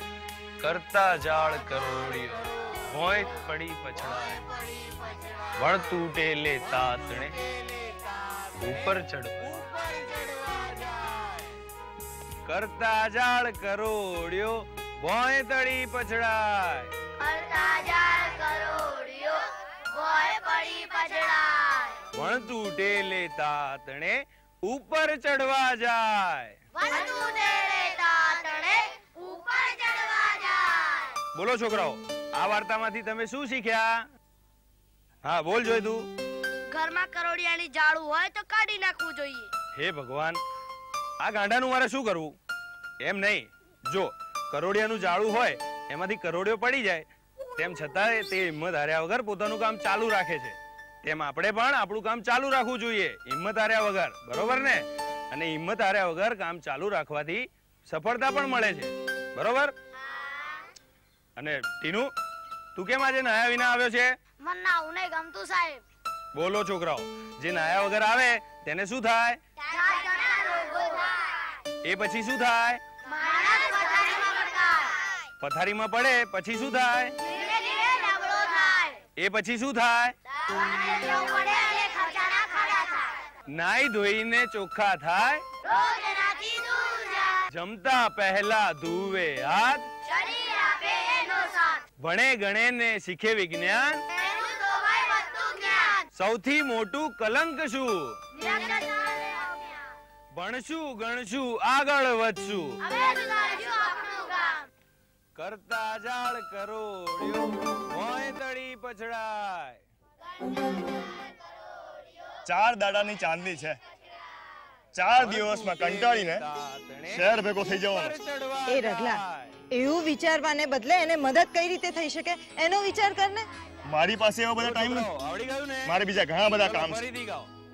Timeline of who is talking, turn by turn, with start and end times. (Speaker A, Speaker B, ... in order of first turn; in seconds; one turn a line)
Speaker A: 0.6-4.4
Speaker A: 5.6-7.4
Speaker A: 8.6-9.7
Speaker A: 12.5-16.9
Speaker B: 17.2-22.0
Speaker A: 22.1-26.6
Speaker B: 26.8-31.1
Speaker A: 31.4-34.1
Speaker A: 35.2-36.1
Speaker B: 36.7-39.5
Speaker A: 39.8-40.4
Speaker A: 41.2-42.4
Speaker A: 43.0-47.1
Speaker A: 47.6-59.7
Speaker B: 60.2-60.5
Speaker A: 61.4-62.1
Speaker A: 62.8-64.2
Speaker B: 64.4-65.8
Speaker A: 66.3-69.4
Speaker B: 69.7-71.5
Speaker A: 71.8-72.8
Speaker B: 73.0-75.0
Speaker A: 75.4-77.2
Speaker B: 77.2-79.0
Speaker A: 79.2-80.2
Speaker B: 80.4-83.2
Speaker A: 83.5-85.4
Speaker B: 85.6-87.4
Speaker A: 87.5-89.9
Speaker B: 90.0-91.8
Speaker A: 92.0-94.0
Speaker B: 94.1-96.0
Speaker A: 96.2-98.2
Speaker B: 98.3-99.8
Speaker A: 100.3-102.8
Speaker B: 102.8-104.7
Speaker A: 105.4-109.8
Speaker C: 112.5-113.8
Speaker C: 114.9-116.4
Speaker A: 115.2-119.5
Speaker C: 117.1-118.2
Speaker D: 118.7-123.5
Speaker C: 123.9-125.1
Speaker A: 124.6-126.0
Speaker C: 125.9-127.0
Speaker A: 126.5-127.5